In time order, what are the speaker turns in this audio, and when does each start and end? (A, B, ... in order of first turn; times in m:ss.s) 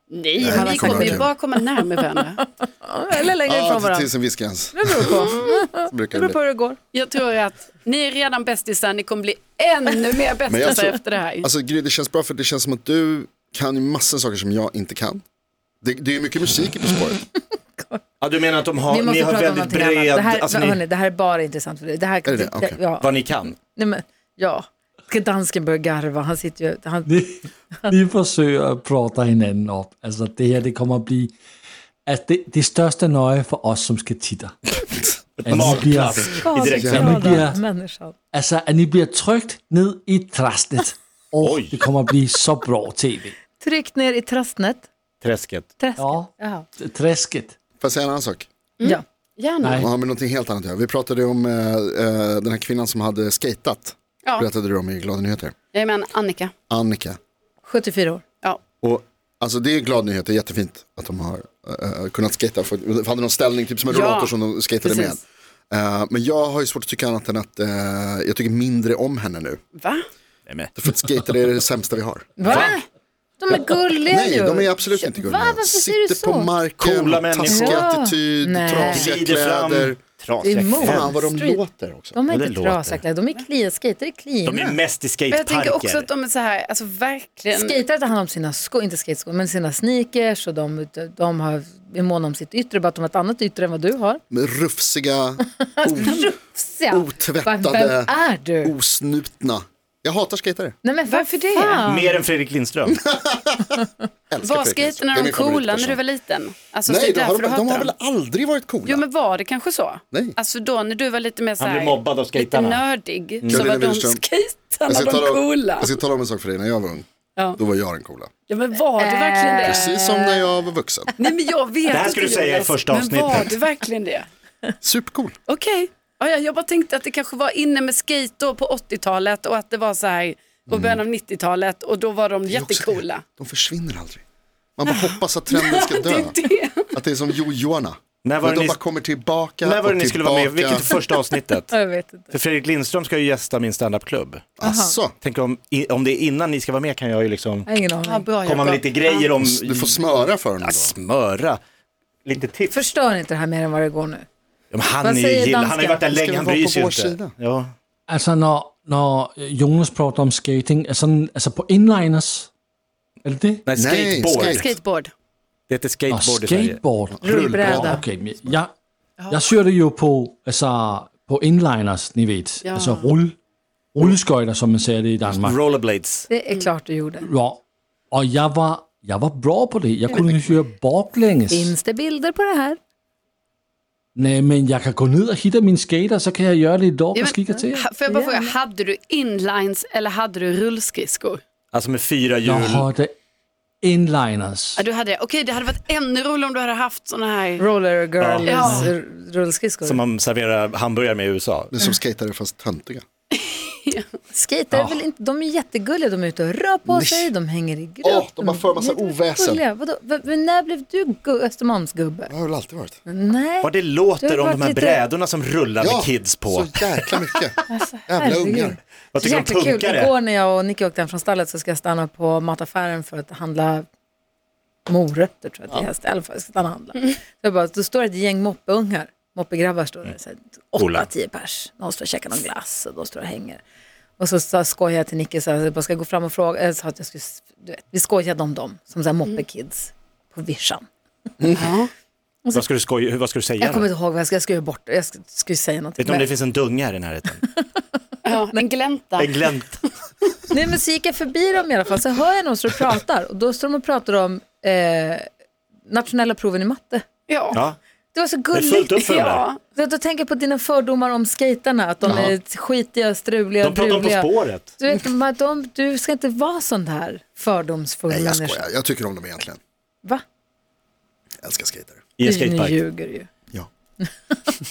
0:00.1-0:02.4 A
0:00.4-0:01.3 B
0:00.4-0:01.2 C
0:02.4-0:04.1 C
0:03.5-0:06.4 B
0:04.7-0:06.8 C
0:06.9-0:11.5 A
0:10.5-0:15.2 B
0:15.8-0:17.2 B
0:18.2-0:20.8 D
0:18.9-0:27.1 C
0:22.3-0:22.8 B
0:23.0-0:23.6 D
0:27.1-0:31.3 E
0:32.1-0:34.6 E
0:35.4-0:37.5 D
0:35.4-0:37.6 E
0:36.4-0:38.2 C
0:36.8-0:37.1 B
0:38.3-0:43.3 E
0:41.4-0:41.8 D
0:43.6-0:44.9 C
0:45.2-0:45.7 D
0:45.8-0:46.6 C
0:46.0-0:47.6 E
0:47.8-0:48.5 B
0:48.8-0:49.9 A
0:49.6-0:49.9 E
0:49.7-0:55.6 B
0:55.7-0:56.5 A
0:56.7-0:57.2 B
0:57.6-0:58.2 C
0:58.8-1:09.6 B
1:03.9-1:05.2 A
1:09.8-1:10.0 A
1:10.8-1:12.7 B
1:12.4-1:12.8 C
1:12.4-1:12.8 D
1:13.4-1:16.6 C
1:14.1-1:20.0 B
1:16.8-1:17.8 D
1:17.5-1:19.1 C
1:18.7-1:21.1 D
1:20.4-1:21.6 C
1:20.8-1:22.2 B
1:22.1-1:24.8 C
1:22.3-1:23.0 D
1:24.4-1:26.1 D
1:25.3-1:27.8 A
1:27.5-1:34.2 C
1:34.3-1:36.3 B
1:35.8-1:38.7 C
1:36.9-1:40.8 B
1:40.8-1:42.1 C
1:41.1-1:42.0 A
1:41.9-1:43.0 D
1:42.9-1:46.0 B
1:44.4-1:47.9 A
1:46.9-1:49.0 B
1:48.9-1:55.9 A
1:51.6-1:52.8 D
1:53.5-1:54.2 B
1:54.9-1:57.0 B
1:57.6-1:58.3 B
1:58.5-2:00.0 A
1:59.0-2:00.4 C
1:59.6-2:01.1 B
2:01.2-2:04.3 A
2:01.9-2:03.5 D
2:04.8-2:05.4 B
2:05.5-2:13.2 A
2:10.7-2:11.0 B
2:12.5-2:14.2 B
2:14.8-2:16.4 B
2:14.9-2:16.9 A
2:16.9-2:21.0 B
2:18.2-2:18.8 D
2:19.6-2:21.8 D
2:21.7-2:22.3 C
2:22.3-2:24.5 D
2:24.6-2:25.2 B
2:24.6-2:25.0 C
2:25.2-2:27.7 D
2:27.7-2:28.2 C
2:28.0-2:29.2 A
2:28.4-2:30.0 D
2:29.4-2:30.9 B
2:30.6-2:31.6 D
2:32.2-2:32.8 D
2:32.7-2:34.3 C
2:34.7-2:37.7 D
2:35.0-2:36.0 C
2:36.1-2:37.3 B
2:38.1-2:42.5 E
2:43.2-2:43.6 E
2:43.7-2:44.7 D
2:43.8-2:44.7 B
2:44.3-2:45.1 A
2:45.7-2:46.8 D
2:46.1-2:48.7 E
2:47.2-2:48.0 B
2:47.2-2:48.0 C
2:49.2-2:49.5 A
2:49.3-2:53.4 E
2:52.6-2:53.1 A
2:54.0-2:55.6 E
2:55.3-2:56.3 D
2:56.3-2:57.3 C
2:57.2-2:57.6 E
2:58.1-3:01.7 E
3:01.5-3:02.8 C
3:04.2-3:07.9 E
3:07.2-3:11.4 A
3:08.1-3:08.6 C
3:11.7-3:12.9 D
3:12.4-3:13.1 E
3:13.8-3:14.8 E
3:14.8-3:17.6 A
3:17.6-3:20.0 C
3:18.2-3:18.6 D
3:18.5-3:18.9 A
3:19.8-3:21.7 D
3:21.7-3:23.0 B
3:23.3-3:24.1 A
3:24.3-3:32.3 C
3:24.7-3:25.0 D
3:26.9-3:27.3 B
3:28.0-3:29.6 B
3:32.3-3:33.0 B
3:33.1-3:35.0 C
3:33.6-3:37.0 D
3:35.8-3:38.8 B
3:37.7-3:43.9 C
3:39.1-3:40.1 D
3:44.9-3:53.6 C
3:50.8-3:51.1 D
3:54.2-4:00.9 C
4:01.6-4:01.9 A
4:02.5-4:03.9 D
4:03.6-4:06.3 C
4:06.0-4:07.5 D
4:08.2-4:09.3 A
4:09.2-4:09.9 D
4:10.5-4:15.3 C
4:15.9-4:17.0 C
4:17.3-4:17.6 A
4:17.5-4:17.8 D
4:18.1-4:18.9 C
4:18.5-4:19.5 D
4:19.0-4:19.6 A
4:19.7-4:28.6 C
4:22.1-4:22.3 B
4:23.6-4:24.7 D
4:28.1-4:29.6 B
4:31.4-4:32.0 B
4:32.2-4:32.8 D
4:32.2-4:33.3 C